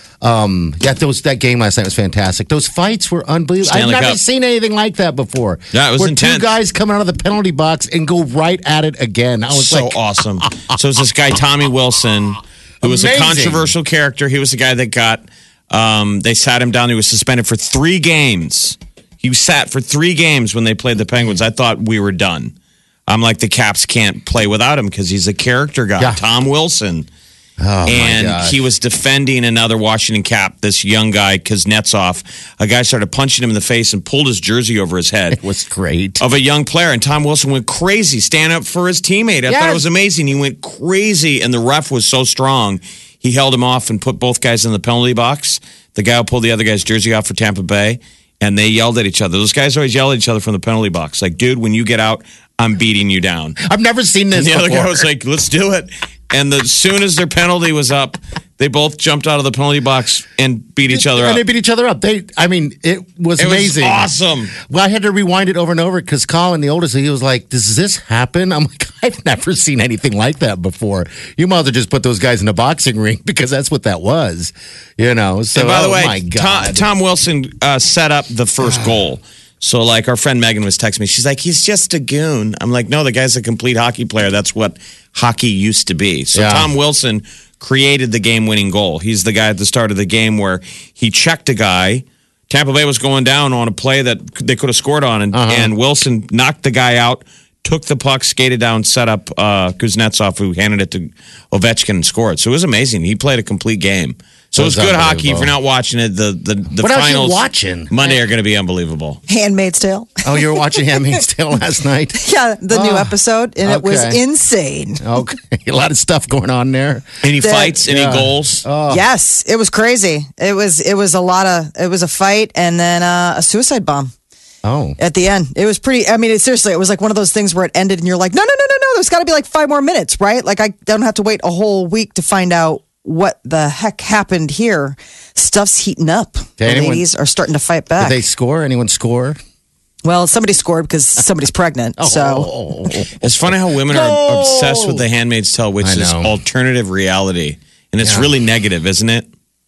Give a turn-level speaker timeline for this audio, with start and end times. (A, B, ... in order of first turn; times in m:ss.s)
0:00.2-0:10.7 A
0:03.6-0:04.2 B
0:05.7-0:06.5 B
0:09.5-0:22.5 B
0:12.8-0:13.7 A
0:23.1-0:27.1 B
0:27.6-0:28.6 A
0:27.9-0:35.4 B
0:35.3-0:36.2 A
0:36.2-0:53.6 B
0:39.5-0:39.8 A
0:53.6-0:55.1 A
0:54.3-1:01.4 B
1:00.9-1:16.9 A
1:03.4-1:04.5 B
1:15.5-1:49.2 B
1:18.6-1:19.0 A
1:26.3-1:26.7 A
1:35.3-1:35.7 A
1:44.6-1:45.5 A
1:46.8-1:48.1 A
1:49.3-1:51.1 C
1:50.2-1:54.2 A
1:52.2-1:55.0 C
1:55.0-1:57.1 A
1:57.2-1:58.6 B
1:57.4-1:57.8 C
1:57.8-1:59.0 A
1:58.9-2:04.1 C
2:04.6-2:05.0 A
2:05.0-2:18.2 C
2:16.6-2:17.0 A
2:18.0-2:19.4 A
2:20.0-2:22.5 C
2:22.0-2:25.0 A
2:23.2-2:29.3 B
2:25.8-2:26.3 A
2:28.0-2:28.3 A